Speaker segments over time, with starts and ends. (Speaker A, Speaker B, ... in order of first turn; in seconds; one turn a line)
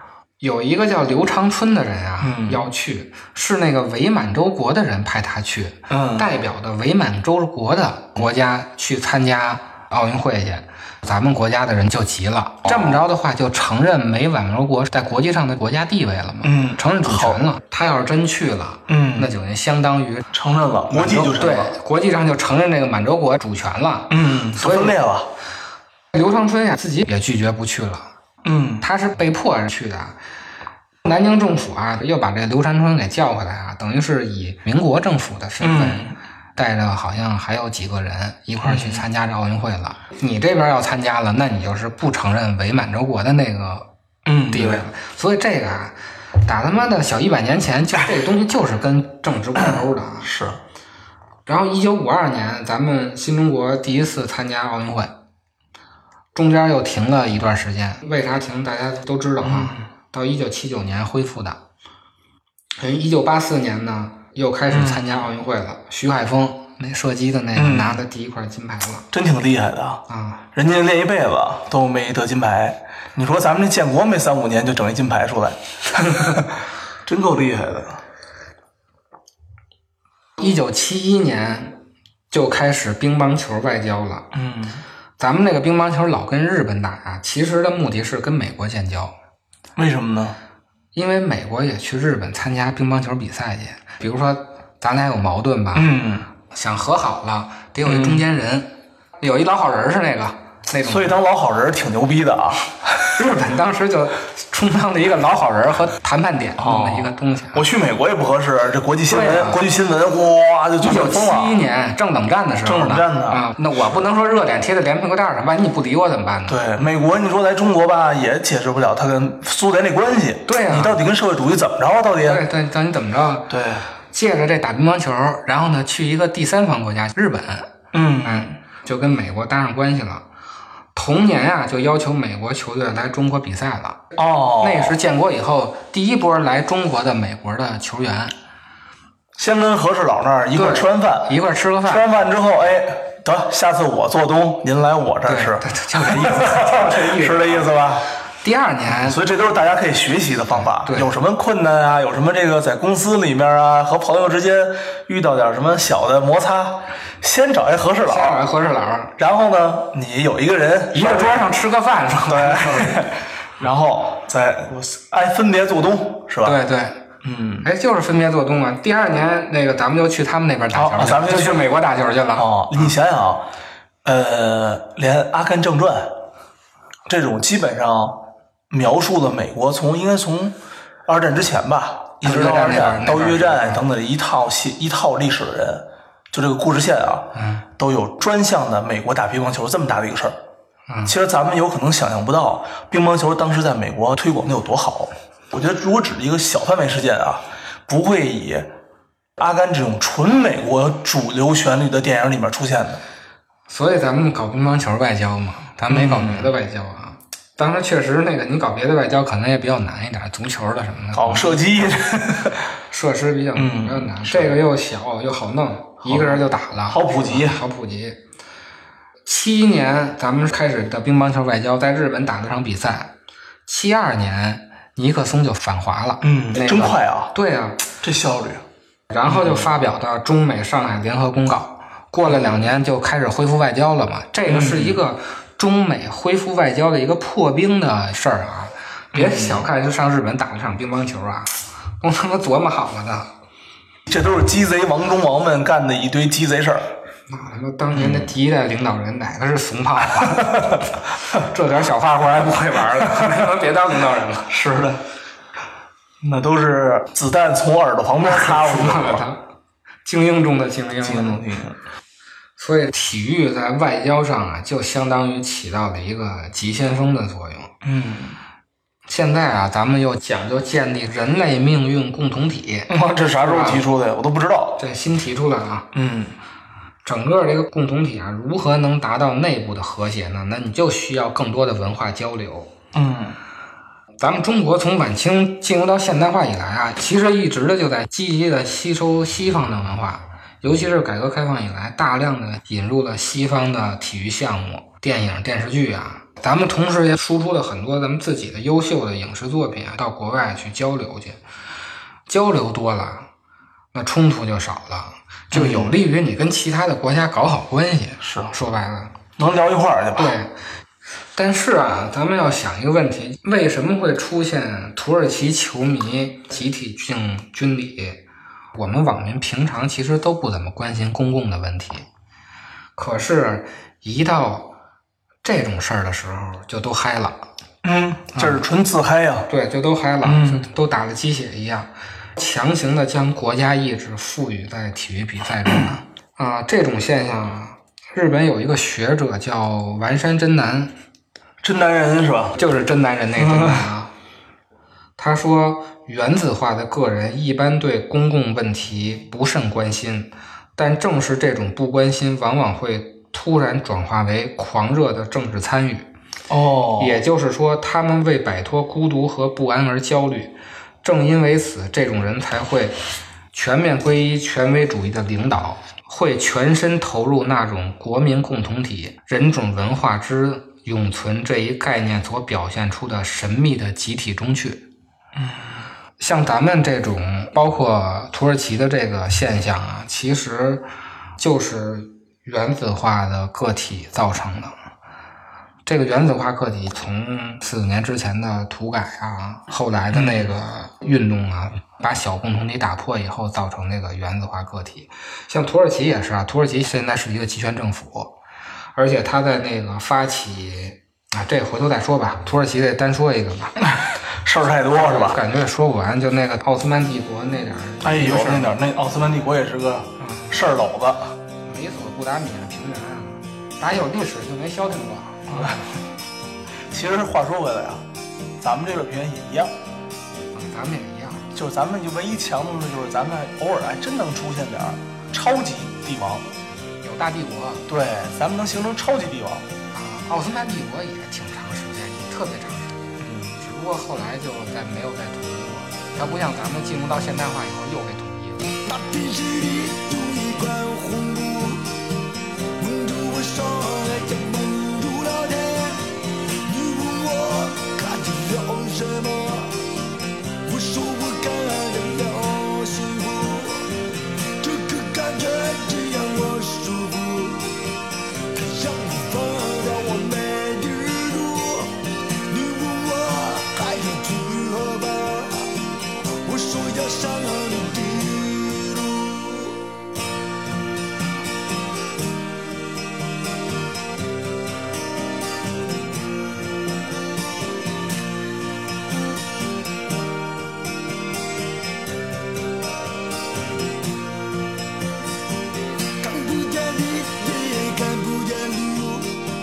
Speaker A: 0.4-20.3
Speaker B: 2.2-2.7
Speaker B: 5.9-6.3
Speaker B: 16.4-17.4
Speaker B: 18.9-19.3
Speaker B: 20.3-21.7
Speaker A: 20.9-25.0
Speaker B: 24.1-25.3
Speaker A: 26.1-28.1
Speaker B: 28.4-28.9
Speaker A: 28.8-30.2
Speaker A: 31.0-43.9
Speaker B: 35.6-36.2
Speaker B: 38.6-39.0
Speaker B: 44.3-44.9
Speaker A: 44.5-50.3
Speaker B: 50.2-50.6
Speaker A: 51.5-55.2
Speaker A: 56.3-61.6
Speaker B: 59.4-59.9
Speaker A: 62.8-69.1
Speaker B: 64.7-65.0
Speaker B: 67.5-68.0
Speaker B: 69.1-78.0
Speaker A: 70.1-70.4
Speaker A: 80.4-81.8
Speaker A: 82.3-84.3
Speaker B: 84.3-84.8
Speaker A: 85.2-89.1
Speaker B: 89.8-90.4
Speaker A: 90.9-95.9
Speaker B: 95.8-96.3
Speaker A: 96.5-101.2
Speaker B: 97.8-98.2
Speaker B: 100.8-103.1
Speaker A: 103.2-107.7
Speaker B: 106.6-111.6
Speaker A: 109.1-109.6
Speaker A: 110.8-116.6
Speaker B: 112.7-113.4
Speaker B: 116.5-122.4
Speaker A: 120.5-121.0
Speaker A: 122.2-130.3
Speaker B: 123.5-123.9
Speaker B: 127.9-128.6
Speaker A: 130.9-138.3
Speaker B: 134.2-135.0
Speaker B: 139.4-141.3
Speaker A: 140.6-142.1
Speaker B: 141.9-148.1
Speaker A: 145.2-147.7
Speaker A: 148.4-149.2
Speaker B: 148.9-158.4
Speaker A: 150.6-151.1
Speaker A: 158.1-159.2
Speaker B: 159.2-161.5
Speaker A: 160.9-163.1
Speaker B: 162.3-166.6
Speaker A: 166.4-167.0
Speaker B: 167.2-167.7
Speaker A: 167.6-172.5
Speaker B: 170.7-171.7
Speaker B: 172.3-173.5
Speaker B: 174.1-176.2
Speaker B: 177.1-190.4
Speaker A: 182.2-183.8
Speaker A: 187.3-187.6
Speaker A: 190.9-191.2
Speaker B: 191.1-198.7
Speaker B: 199.4-203.0
Speaker A: 203.7-211.6
Speaker B: 205.9-206.5
Speaker B: 211.1-212.7
Speaker A: 212.9-218.2
Speaker B: 213.6-214.6
Speaker B: 216.1-217.6
Speaker A: 219.2-223.1
Speaker A: 223.7-227.8
Speaker B: 226.2-227.3
Speaker B: 227.9-228.6
Speaker A: 229.1-243.3
Speaker B: 229.2-229.7
Speaker B: 234.5-235.0
Speaker B: 239.1-239.6
Speaker B: 244.1-246.9
Speaker A: 247.3-254.6
Speaker B: 247.9-248.3
Speaker B: 254.5-255.0
Speaker B: 256.2-259.2
Speaker A: 258.2-259.4
Speaker A: 260.1-261.4
Speaker B: 261.0-261.8
Speaker A: 262.6-267.7
Speaker B: 267.8-268.4
Speaker A: 269.1-273.9
Speaker B: 272.9-274.8
Speaker A: 274.8-275.9
Speaker B: 275.9-276.4
Speaker A: 277.1-282.7
Speaker B: 282.9-283.4
Speaker A: 284.2-301.4
Speaker A: 302.3-303.3
Speaker A: 303.9-309.1
Speaker B: 305.5-306.0
Speaker B: 308.2-308.5
Speaker B: 309.4-310.3
Speaker A: 310.2-310.5
Speaker A: 311.4-318.2
Speaker A: 318.8-322.1
Speaker A: 323.0-324.8
Speaker A: 325.4-327.5
Speaker B: 327.8-329.5
Speaker A: 328.3-328.6
Speaker A: 329.5-340.9
Speaker B: 330.2-330.6
Speaker B: 341.6-342.6
Speaker A: 342.6-344.1
Speaker B: 343.4-343.9
Speaker A: 345.2-356.1
Speaker B: 356.5-357.2
Speaker A: 357.0-363.0
Speaker A: 363.5-374.9
Speaker B: 375.4-375.9
Speaker A: 376.2-380.9
Speaker A: 381.4-384.7
Speaker A: 385.9-398.3
Speaker B: 390.1-390.5
Speaker A: 398.9-403.8
Speaker B: 403.8-405.4
Speaker A: 404.9-408.8
Speaker B: 408.0-411.4
Speaker A: 410.2-410.6
Speaker A: 411.6-415.9
Speaker B: 415.5-415.8
Speaker B: 416.9-418.1
Speaker B: 418.6-419.7
Speaker A: 420.5-421.5
Speaker B: 421.5-426.5
Speaker A: 427.0-427.9
Speaker B: 427.9-429.7
Speaker A: 429.9-438.8
Speaker B: 433.2-433.6
Speaker C: 438.9-441.9
Speaker C: 442.8-446.1
Speaker C: 446.6-449.8
Speaker C: 450.6-453.9
Speaker C: 454.6-457.8
Speaker C: 458.5-465.8
Speaker C: 466.4-469.8
Speaker C: 486.2-489.4